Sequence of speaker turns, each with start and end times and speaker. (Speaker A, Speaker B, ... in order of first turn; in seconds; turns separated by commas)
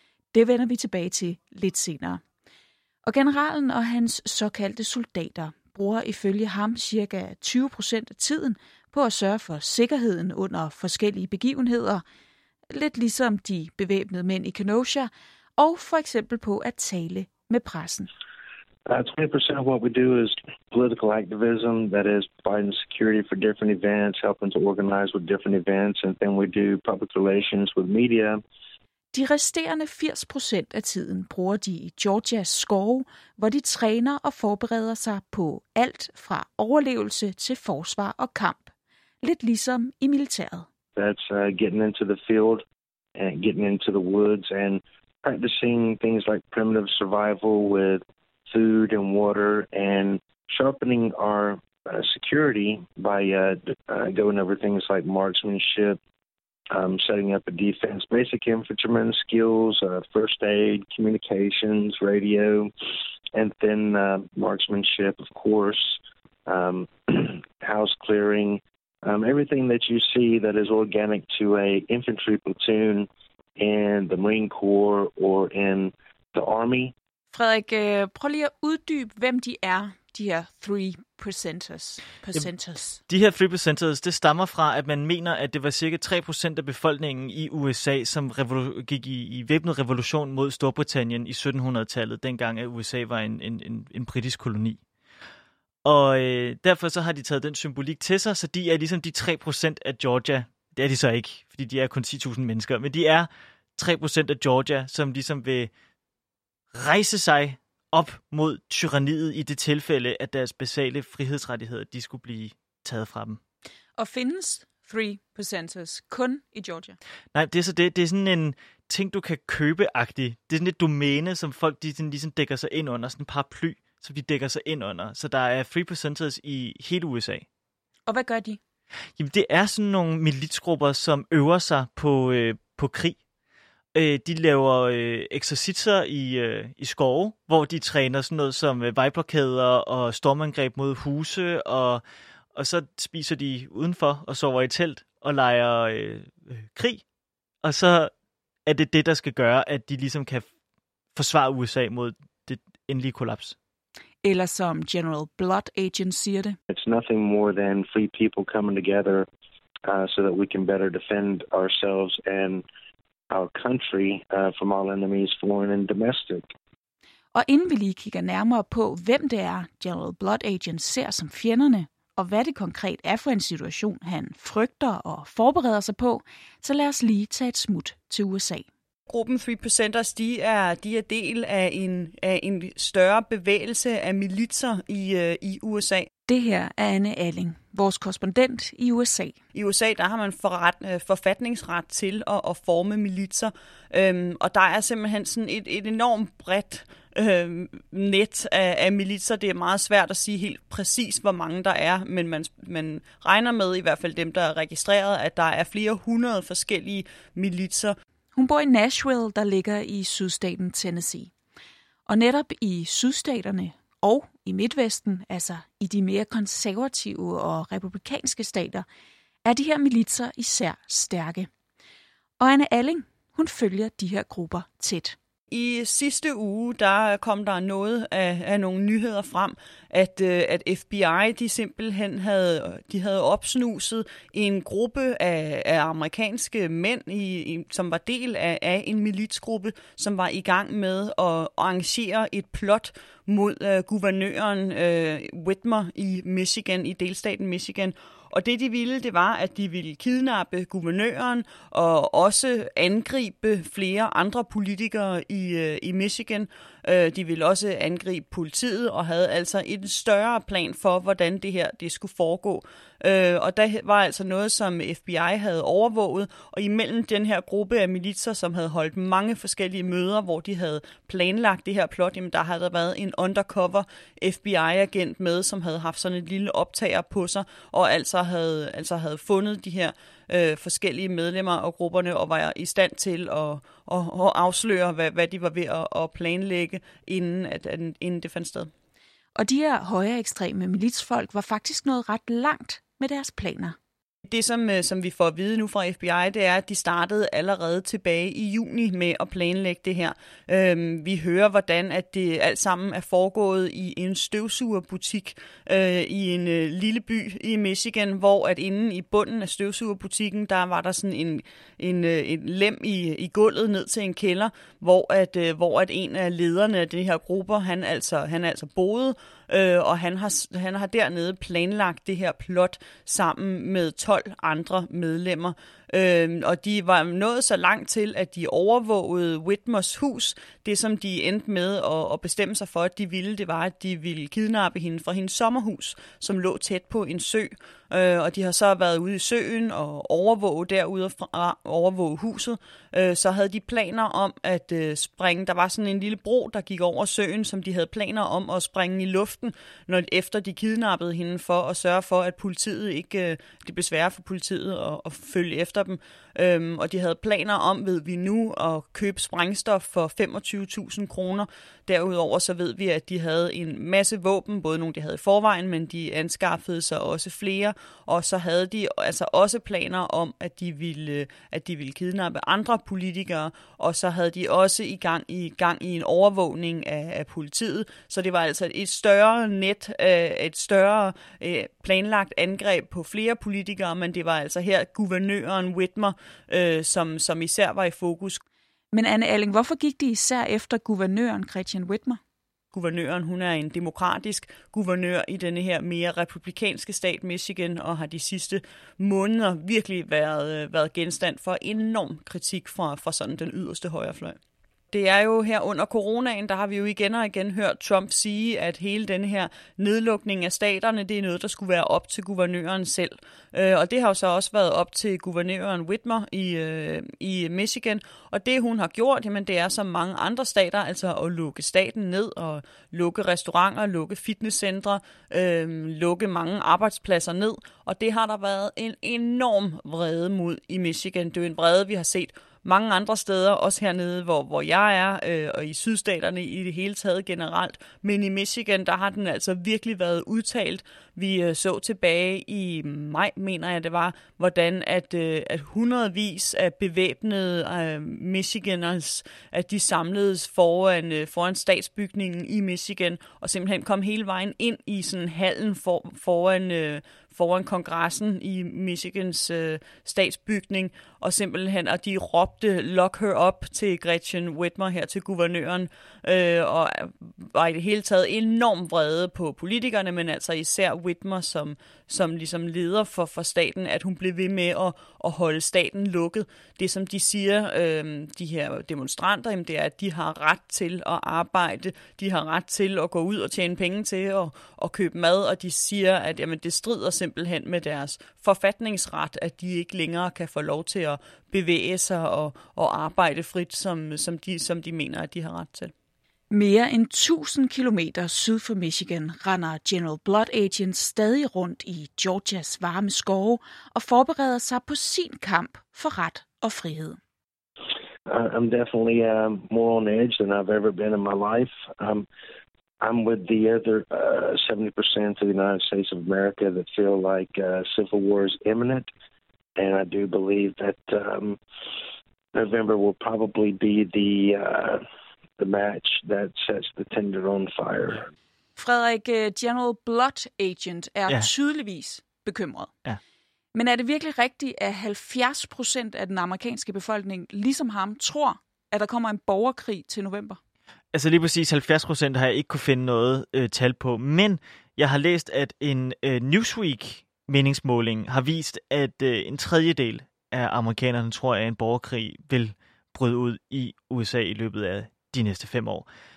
Speaker A: 0.3-2.2, Speaker A: 3.0-12.0, Speaker A: 12.7-18.1, Speaker B: 18.9-28.4, Speaker A: 29.1-38.7, Speaker A: 39.2-40.7, Speaker B: 41.0-42.6, Speaker B: 43.1-56.0, Speaker B: 56.7-62.7, Speaker B: 63.3-76.9, Speaker A: 77.3-83.0, Speaker C: 83.1-94.8, Speaker C: 95.8-105.7, Speaker C: 106.7-113.4, Speaker A: 114.0-117.0, Speaker C: 117.3-127.5, Speaker A: 128.1-128.6, Speaker C: 129.2-133.2, Speaker C: 133.9-142.0, Speaker C: 142.5-147.0, Speaker C: 147.6-148.1, Speaker C: 148.7-150.5, Speaker C: 151.1-153.6, Speaker A: 154.2-156.6, Speaker B: 156.7-159.3, Speaker B: 159.8-162.7, Speaker B: 163.3-166.5, Speaker A: 167.3-178.7, Speaker D: 179.1-186.1, Speaker A: 186.3-189.4, Speaker D: 189.5-208.0, Speaker A: 208.3-211.3, Speaker A: 212.1-218.8, Speaker A: 219.4-221.5, Speaker A: 222.4-225.2, Speaker D: 225.5-288.7, Speaker A: 289.4-293.8, Speaker D: 294.2-388.4, Speaker A: 388.9-392.2, Speaker D: 392.7-404.4, Speaker D: 404.9-495.9, Speaker A: 496.5-507.2, Speaker B: 508.3-512.3, Speaker B: 513.0-519.1, Speaker B: 519.8-521.6, Speaker B: 522.5-525.0, Speaker B: 525.6-528.3, Speaker A: 528.8-532.9, Speaker A: 533.7-540.6, Speaker C: 541.1-556.1